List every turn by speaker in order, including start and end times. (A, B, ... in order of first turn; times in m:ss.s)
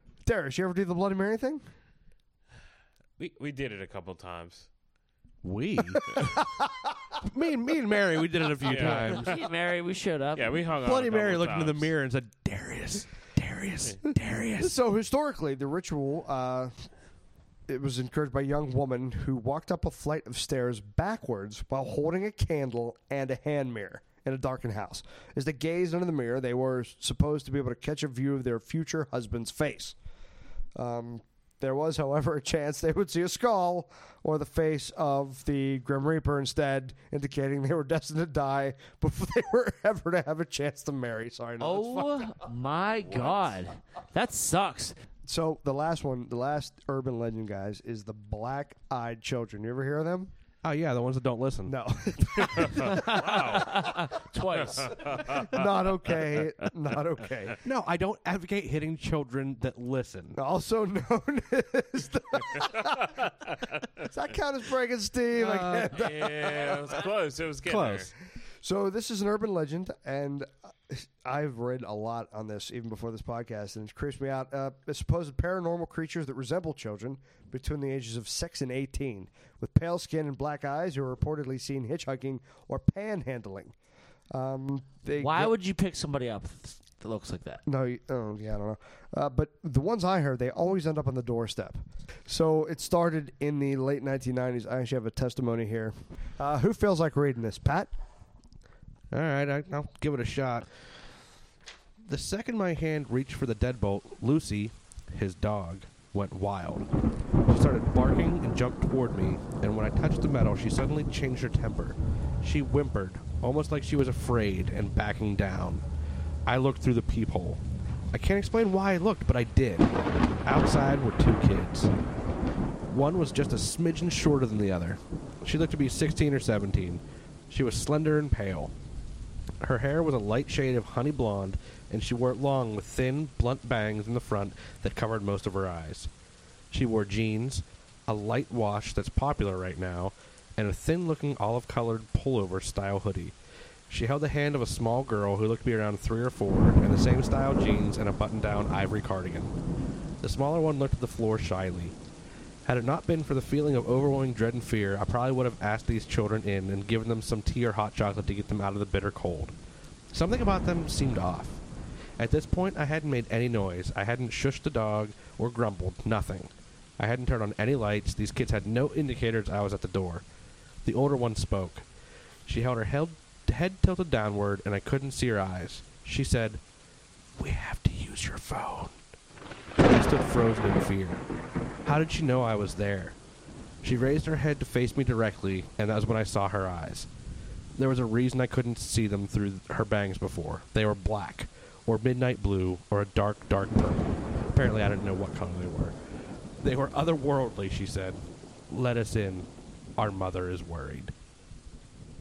0:00.2-0:01.6 A
0:03.2-0:04.7 B
0:05.4-0:06.1 C
0:05.9-0:07.0 A
0:07.2-0:09.4 C
0:08.6-0:09.4 B
0:08.7-0:10.6 D
0:10.4-0:11.9 B
0:10.8-0:14.8 C
0:14.6-0:16.8 A
0:17.7-0:30.0 A
0:30.8-0:42.4 A
0:41.6-0:45.0 D
0:45.3-0:50.3 A
0:50.6-0:51.8 C
0:51.7-0:54.0 A
0:52.4-0:53.9 B
0:52.8-0:55.2 D
0:54.6-0:55.7 B
0:55.0-0:57.6 A
0:57.6-1:00.4 C
1:00.4-1:03.3 A
1:04.0-1:07.0 A
1:05.4-1:05.9 C
1:05.6-1:08.1 B
1:07.6-1:08.1 C
1:08.6-1:23.7 A
1:24.3-1:25.5 A
1:25.2-1:27.6 D
1:27.7-1:37.9 A
1:39.1-1:40.7 C
1:42.0-1:46.9 C
1:47.5-1:55.8 C
1:56.5-1:59.9 C
2:00.4-2:01.9 C
2:02.9-2:08.7 C
2:09.6-2:16.1 C
2:16.7-2:23.4 C
2:23.9-2:29.5 C
2:30.2-2:32.0 C
2:32.6-2:39.5 C
2:40.1-2:41.6 C
2:42.2-2:50.2 C
2:50.8-2:51.8 C
2:52.5-2:56.6 C
2:57.4-2:59.0 C
2:59.8-3:01.2 C
3:01.8-3:03.2 C
3:03.8-3:07.1 C
3:07.8-3:16.0 C
3:16.6-3:21.1 C